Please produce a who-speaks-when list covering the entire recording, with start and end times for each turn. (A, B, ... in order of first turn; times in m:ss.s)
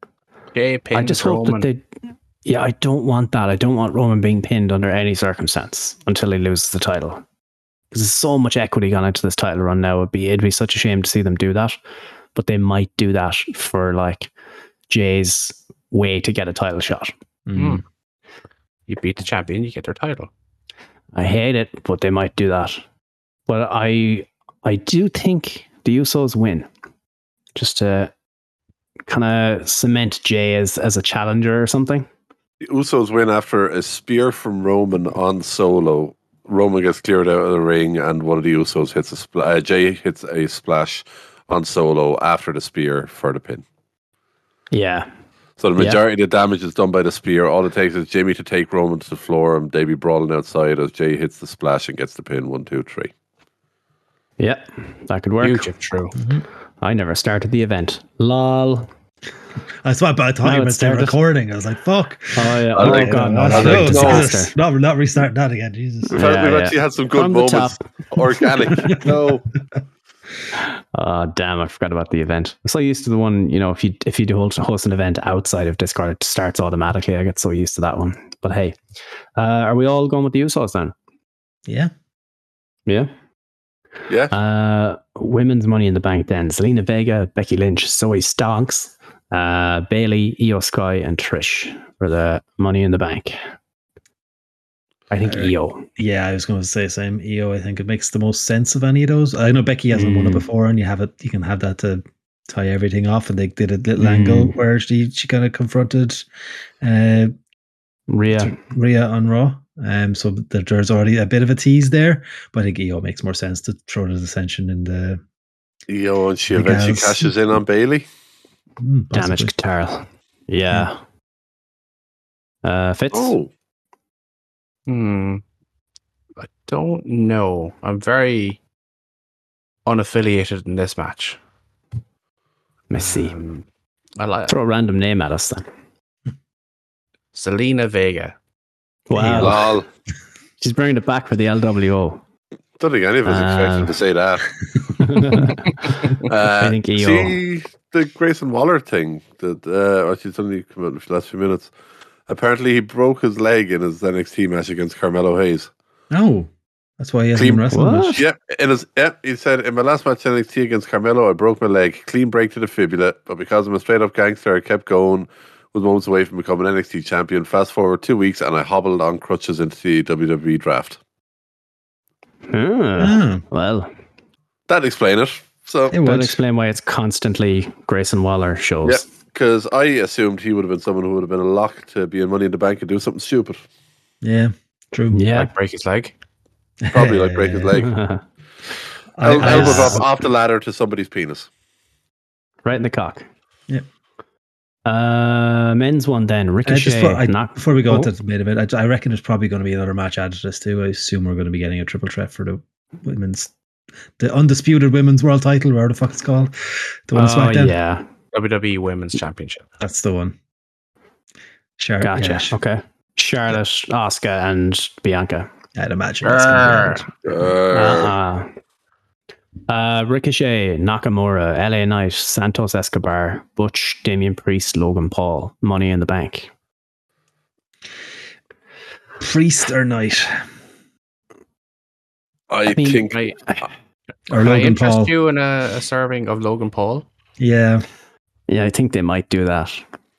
0:00.5-0:01.7 A
0:00.9-0:01.8 B
0:02.4-0:07.2 B
0:07.9-0:11.8 B
0:12.4-0:14.3 B
0:14.9-0:17.1 B
0:17.5-0:17.8 C
0:17.6-0:17.8 A
0:18.9-0:20.3 A
0:21.1-0:22.8 B
0:23.5-0:26.7 B
0:27.6-0:28.1 B
0:29.1-0:32.1 B
0:32.6-0:43.6 D
0:44.7-0:45.1 B
0:45.6-0:53.1 D
0:45.8-0:46.0 B
0:54.4-0:55.7 B
0:55.4-0:56.2 A
0:56.1-0:56.4 C
0:56.8-0:58.9 B
0:59.8-1:06.2 C
1:00.4-1:01.2 B
1:02.4-1:04.5 B
1:02.7-1:04.3 D
1:06.1-1:09.0 B
1:06.1-1:09.4 D
1:10.6-1:18.8 B
1:19.4-1:20.9 B
1:21.7-1:21.9 C
1:24.3-1:33.4 B
1:35.1-1:35.9 B
1:35.3-1:46.3 C
1:39.9-1:40.5 B
1:44.0-1:44.6 B
1:46.8-1:47.3 C
1:48.1-1:48.6 B
1:48.3-1:55.2 C
1:55.9-1:58.1 D
1:56.5-1:57.3 C
1:58.8-1:59.5 C
1:59.1-2:01.0 B
2:02.6-2:03.4 B
2:03.1-2:03.5 D
2:04.9-2:05.4 A
2:06.4-2:08.6 A
2:09.9-2:11.4 A
2:12.9-2:13.4 B
2:13.0-2:13.6 A
2:14.2-2:14.6 A
2:14.5-2:15.7 B
2:17.3-2:18.3 A
2:19.1-2:19.7 B
2:19.1-2:19.6 C
2:19.4-2:19.9 D
2:20.6-2:22.2 B
2:22.8-2:25.0 D
2:23.3-2:24.0 B
2:25.0-2:27.4 B
2:26.1-2:31.7 D
2:32.3-2:35.7 D
2:36.1-2:38.2 C
2:37.4-2:51.0 D
2:37.7-2:38.2 B
2:52.5-2:53.9 B
2:53.0-2:53.4 C
2:54.7-2:56.0 D
2:55.9-2:56.4 C
2:56.0-2:59.0 B
2:58.8-3:03.6 D
3:04.2-3:05.2 C
3:05.1-3:05.5 B
3:05.3-3:06.1 A
3:06.8-3:07.7 C
3:06.9-3:08.0 D
3:07.7-3:08.2 B
3:09.1-3:10.1 C
3:09.2-3:11.5 D
3:09.4-3:10.0 B
3:12.6-3:13.3 B
3:14.8-3:18.1 B
3:16.7-3:23.5 C
3:24.2-3:27.8 C
3:27.1-3:28.0 B
3:28.3-3:29.6 A
3:29.8-3:30.4 C
3:31.8-3:32.6 C
3:32.0-3:35.5 B
3:35.8-3:37.3 C
3:36.2-3:37.0 A
3:37.3-3:38.1 D
3:37.7-3:38.5 B
3:39.7-3:46.5 B
3:49.2-3:50.4 C
3:52.5-3:53.2 D
3:52.7-3:53.7 B
3:53.1-3:53.4 A
3:54.3-3:55.1 C
3:54.3-3:57.0 A
3:57.4-3:57.8 C
3:58.5-3:59.8 B